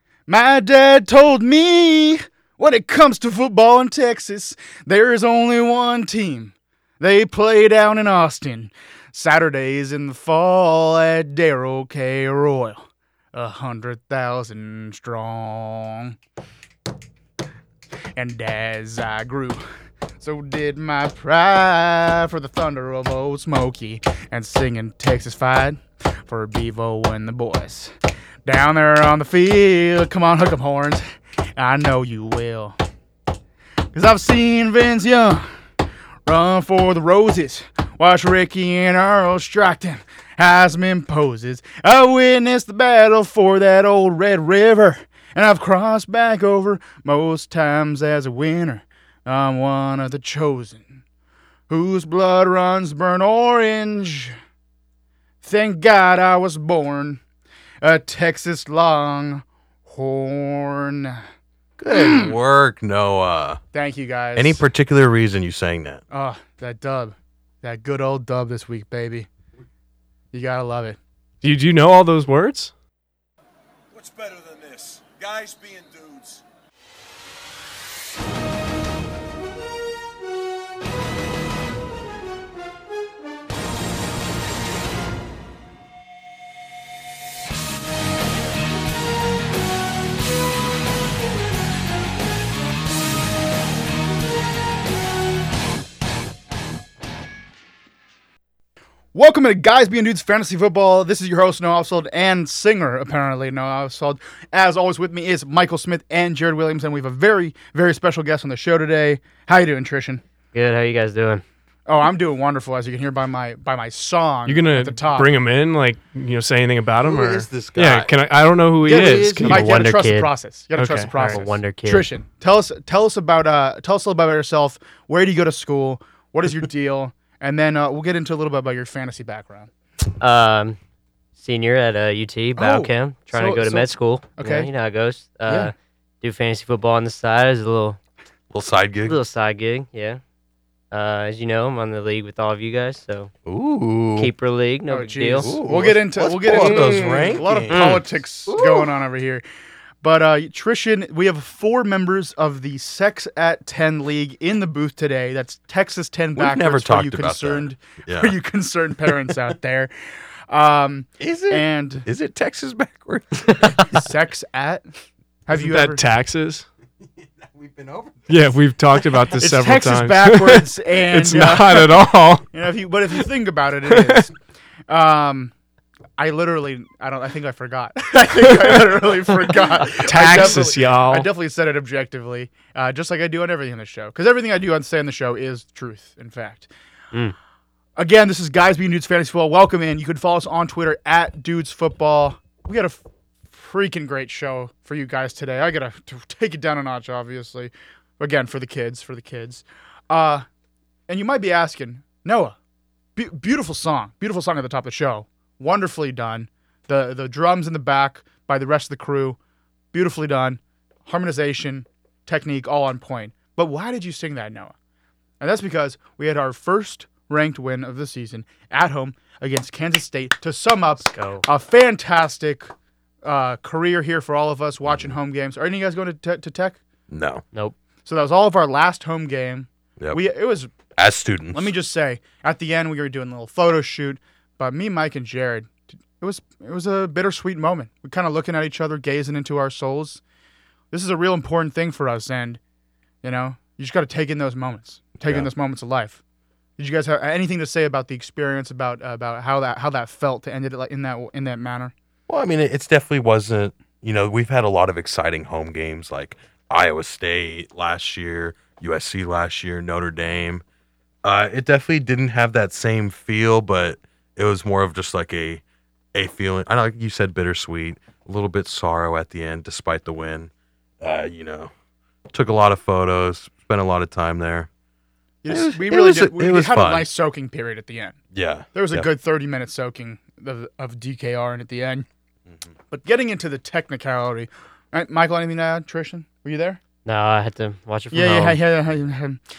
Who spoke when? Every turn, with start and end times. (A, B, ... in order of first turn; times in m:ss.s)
0:00.3-0:16.2 A
0:18.2-0:19.6 A
0:20.2-0:27.9 A
0:28.5-0:31.0 A
0:31.6-0:32.8 A
0:33.9-0:35.5 A
0:36.3-0:51.0 A
0:51.7-0:54.4 A
0:55.4-0:57.2 A
0:57.8-1:01.2 A
1:01.8-1:03.6 B
1:01.9-1:02.3 A
1:03.7-1:04.7 A
1:04.4-1:06.0 B
1:06.1-1:09.3 A
1:10.3-1:11.0 A
1:11.4-1:12.7 C
1:13.9-1:16.4 D
1:39.1-1:50.2 A
1:50.5-1:51.4 E
1:51.9-1:55.3 A
1:54.5-1:59.6 C
1:57.0-1:58.1 B
1:58.8-1:59.7 B
1:58.9-2:09.7 A
1:59.4-2:00.3 E
2:00.8-2:01.4 C
2:01.2-2:02.1 E
2:10.2-2:10.8 E
2:11.4-2:18.0 E
2:12.6-2:14.7 A
2:15.5-2:15.7 A
2:18.5-2:19.2 B
2:19.0-2:20.2 E
2:20.9-2:23.3 E
2:23.4-2:24.3 B
2:24.2-2:25.6 E
2:24.9-2:29.4 A
2:25.4-2:28.9 B
2:26.4-2:28.0 E
2:30.0-2:39.9 A
2:36.4-2:38.4 B
2:40.5-2:42.1 A
2:41.2-2:44.1 B
2:43.8-2:44.9 A
2:45.5-2:46.0 A
2:45.5-2:46.7 C
2:47.4-2:48.4 B
2:48.3-2:52.5 C
2:49.4-2:54.3 A
2:53.9-2:54.3 C
2:54.9-2:55.5 A
2:56.2-3:06.7 A
2:58.5-2:58.9 C
2:59.9-3:01.3 C
3:08.0-3:20.5 A
3:21.1-3:22.6 A
3:23.2-3:29.4 A
3:29.9-3:34.7 A
3:35.4-3:42.7 A
3:41.0-3:41.4 E
3:43.2-3:46.8 A
3:44.8-3:45.2 B
3:47.1-3:47.4 B
3:48.0-3:50.7 A
3:51.0-3:51.7 B
3:51.5-4:00.2 A
4:00.9-4:02.6 A
4:03.2-4:06.2 A
4:05.2-4:05.5 B
4:06.8-4:11.9 A
4:12.3-4:20.6 B
4:21.2-4:25.6 B
4:26.1-4:31.7 B
4:32.3-4:34.7 B
4:35.4-4:38.2 A
4:35.5-4:37.1 B
4:38.3-4:39.1 B
4:38.7-4:42.1 A
4:42.9-4:46.8 A
4:47.1-4:48.6 E
4:48.1-4:49.4 A